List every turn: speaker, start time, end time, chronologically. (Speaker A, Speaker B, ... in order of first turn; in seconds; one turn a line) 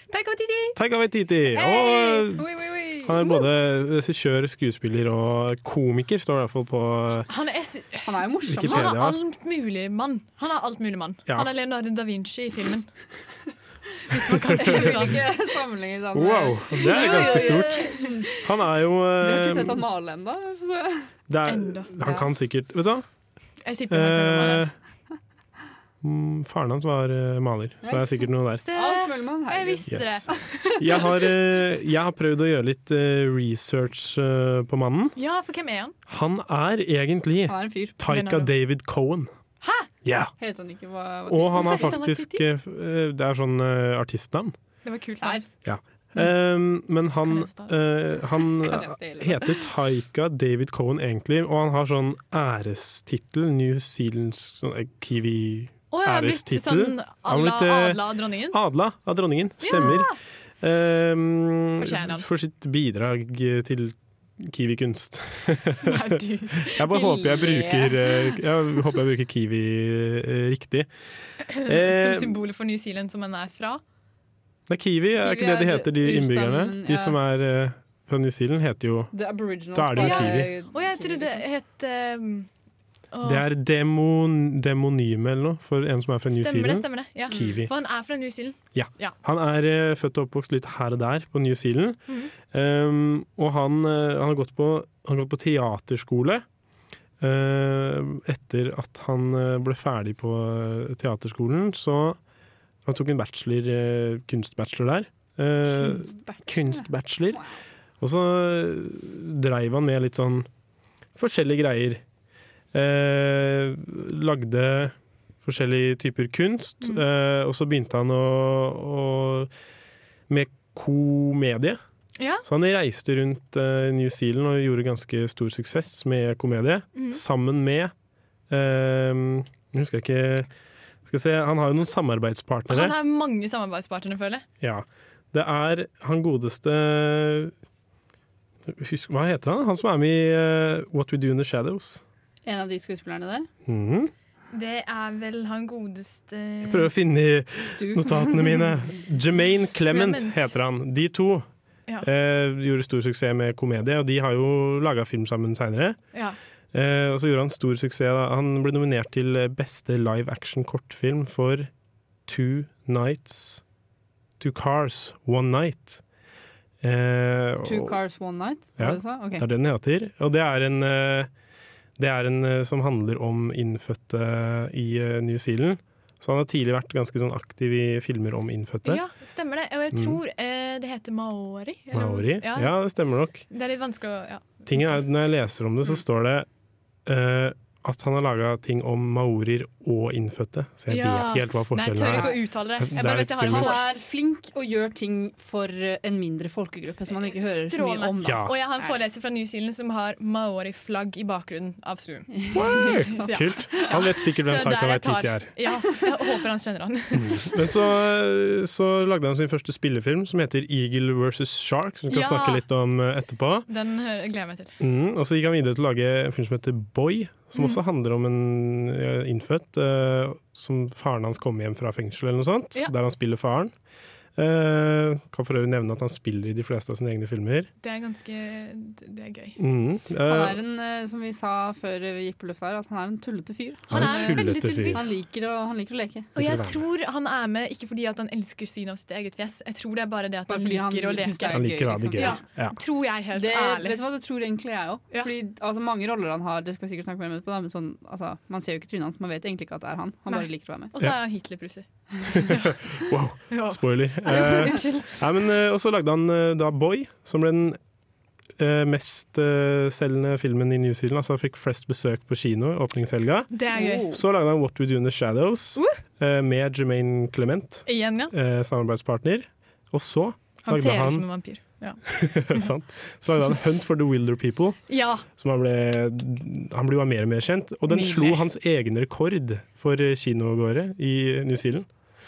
Speaker A: 0.1-0.8
Speaker B: 0.8-2.5
Speaker C: 1.6-2.4
Speaker A: 2.2-3.4
Speaker B: 3.0-7.3
Speaker A: 7.3-12.9
Speaker C: 8.1-9.0
Speaker B: 8.5-9.2
Speaker A: 14.1-15.3
Speaker B: 14.4-15.1
Speaker C: 14.5-18.4
Speaker B: 16.1-19.8
Speaker A: 16.9-17.8
Speaker C: 19.2-21.1
Speaker B: 21.3-23.1
Speaker A: 21.5-21.9
Speaker A: 23.6-24.7
Speaker B: 23.9-24.7
Speaker B: 26.0-28.6
Speaker C: 27.8-30.4
Speaker A: 28.6-31.1
Speaker B: 29.9-30.2
Speaker B: 30.8-35.2
Speaker A: 35.2-36.0
Speaker B: 36.1-39.3
Speaker C: 37.5-38.0
Speaker A: 38.1-38.5
Speaker A: 39.6-39.9
Speaker B: 40.0-40.3
Speaker C: 40.4-42.0
Speaker B: 41.3-44.5
Speaker A: 41.5-42.5
Speaker A: 44.8-45.4
Speaker C: 45.2-45.5
Speaker B: 45.6-70.9
Speaker A: 47.2-47.8
Speaker C: 48.5-49.7
Speaker A: 55.9-58.6
Speaker A: 59.6-60.1
Speaker A: 61.8-62.3
Speaker A: 65.8-66.9
Speaker C: 66.9-68.4
Speaker B: 71.5-72.4
Speaker A: 71.5-73.8
Speaker B: 74.7-79.1
Speaker C: 75.2-77.2
Speaker C: 79.1-81.4
Speaker B: 79.7-80.5
Speaker A: 80.0-82.5
Speaker A: 83.1-83.4
Speaker B: 83.2-87.7
Speaker A: 86.3-89.2
Speaker B: 88.7-96.5
Speaker B: 97.2-102.2
Speaker B: 102.8-107.4
Speaker C: 105.8-107.5
Speaker B: 108.0-110.5
Speaker B: 111.2-112.0
Speaker B: 112.7-119.5
Speaker B: 120.3-121.8
Speaker A: 122.2-122.5
Speaker B: 122.4-127.9
Speaker A: 127.0-127.2
Speaker B: 128.5-130.5
Speaker B: 131.1-133.0
Speaker A: 132.7-134.4
Speaker B: 134.6-137.5
Speaker B: 138.7-142.0
Speaker C: 142.4-143.5
Speaker B: 143.7-144.1
Speaker A: 144.5-146.9
Speaker B: 146.6-151.5
Speaker C: 147.6-148.7
Speaker A: 149.9-150.5
Speaker B: 152.0-156.0
Speaker B: 156.7-161.7
Speaker B: 162.3-163.6
Speaker B: 164.4-166.0
Speaker B: 166.8-168.0
Speaker C: 167.6-169.5
Speaker B: 168.8-171.3
Speaker B: 172.0-179.0
Speaker A: 178.8-182.8
Speaker B: 179.9-180.2
Speaker B: 181.9-183.4
Speaker A: 183.5-185.0
Speaker B: 184.7-186.5
Speaker B: 187.1-193.8
Speaker A: 190.9-193.9
Speaker C: 192.1-192.4
Speaker C: 193.5-198.9
Speaker A: 197.1-207.6
Speaker B: 198.2-198.5
Speaker C: 202.3-204.0
Speaker B: 202.5-205.5
Speaker B: 207.1-213.7
Speaker A: 212.1-212.6
Speaker A: 213.7-214.8
Speaker B: 214.8-223.7
Speaker B: 224.4-227.7
Speaker A: 227.8-229.6
Speaker B: 229.6-230.6
Speaker C: 230.3-236.3
Speaker B: 233.9-235.0
Speaker A: 233.9-235.1
Speaker B: 236.4-236.9
Speaker A: 236.4-244.0
Speaker C: 240.5-242.4
Speaker B: 241.5-242.8
Speaker C: 243.3-250.9
Speaker A: 250.3-252.8
Speaker B: 252.3-257.8
Speaker A: 253.5-255.2
Speaker B: 258.6-271.3
Speaker A: 263.5-264.2
Speaker C: 263.7-264.2
Speaker A: 267.9-268.3
Speaker A: 270.6-272.0
Speaker B: 272.1-274.8
Speaker A: 274.9-275.2
Speaker B: 275.4-281.9
Speaker A: 277.9-278.4